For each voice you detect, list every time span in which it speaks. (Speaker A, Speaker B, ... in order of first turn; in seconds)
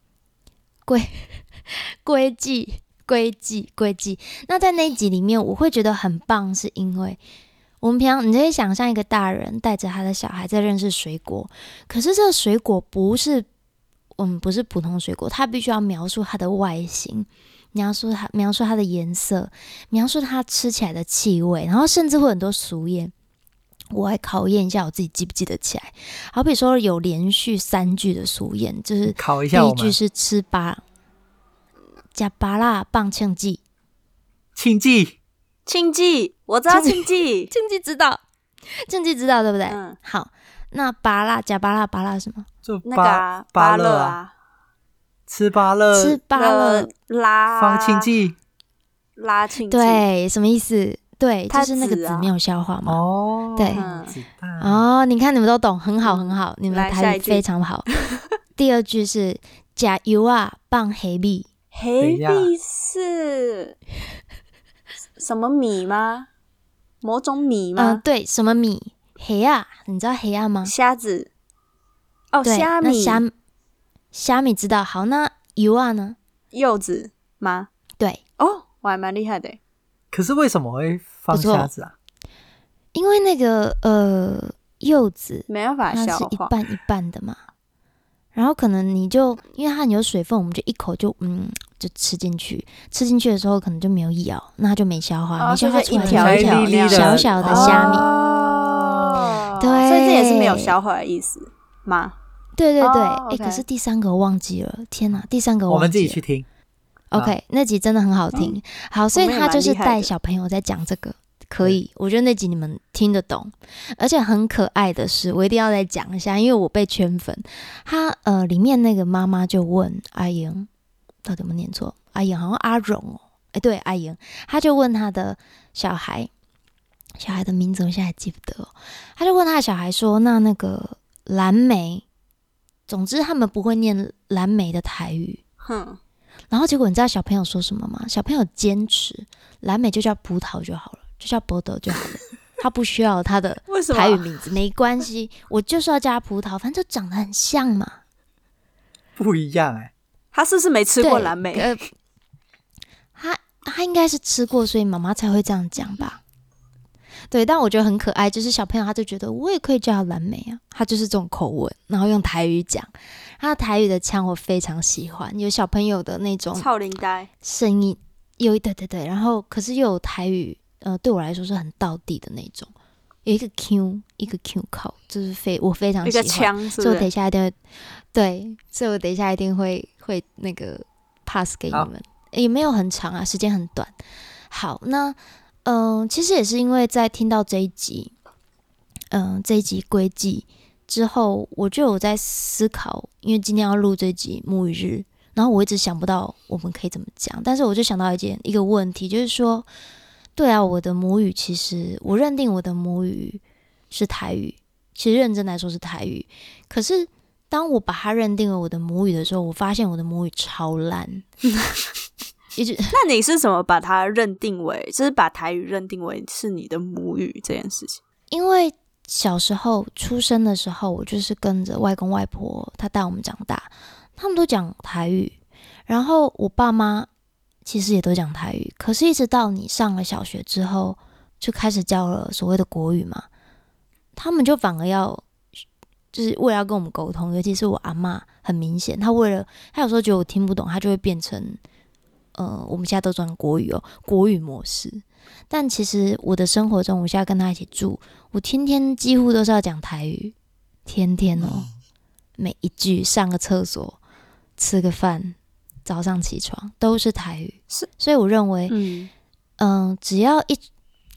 Speaker A: 0.9-7.2, 7.8-13.5, 14.2-23.1, 23.9-30.8, 32.1-33.6, 36.7-38.2, 38.8-42.5, 45.9-46.9, 49.7-53.0, 53.5-53.8, 54.6-57.9, 58.6-61.5, 67.8-70.7, 72.4-73.3, 74.1-76.2, 81.3-81.7, 82.9-87.4, 88.3-98.1, 99.6-100.7, 102.6-106.2, 107.1-120.7, 121.2-126.3, 127.2-132.1, 132.9-135.4, 136.5-148.0, 151.0-151.8, 153.2-156.2, 157.3-166.7, 167.4-172.7, 173.2-177.6, 178.1-183.9, 184.5-188.1, 189.1-199.7, 200.4-211.2, 212.6-212.9, 218.3-225.3, 225.9-227.1, 227.6-233.3, 234.2-235.2, 236.1-241.6, 242.3-250.3, 250.8-251.7, 252.4-254.0, 254.6-258.7, 259.6-260.7
Speaker B: 29.1-30.0, 34.5-35.2, 42.6-44.2, 45.3-46.2, 47.6-48.4, 52.9-54.9, 62.0-62.5, 80.1-81.9, 96.0-99.2, 105.1-106.5, 149.2-149.9, 251.4-251.7
Speaker C: 35.6-37.5, 39.7-40.0, 42.8-44.3, 46.3-48.1, 49.2-50.0, 51.5-52.3, 53.8-54.1, 56.0-57.4, 61.7-63.8, 65.2-66.3, 67.0-68.0, 70.6-71.3, 72.3-73.2, 76.5-77.7, 78.4-79.6, 85.5-86.5, 95.4-102.2, 102.8-103.6, 109.1-110.1, 135.6-136.0, 143.7-144.2, 150.3-151.7, 166.6-167.3, 176.0-177.1, 211.5-211.8, 212.9-218.0, 258.7-259.1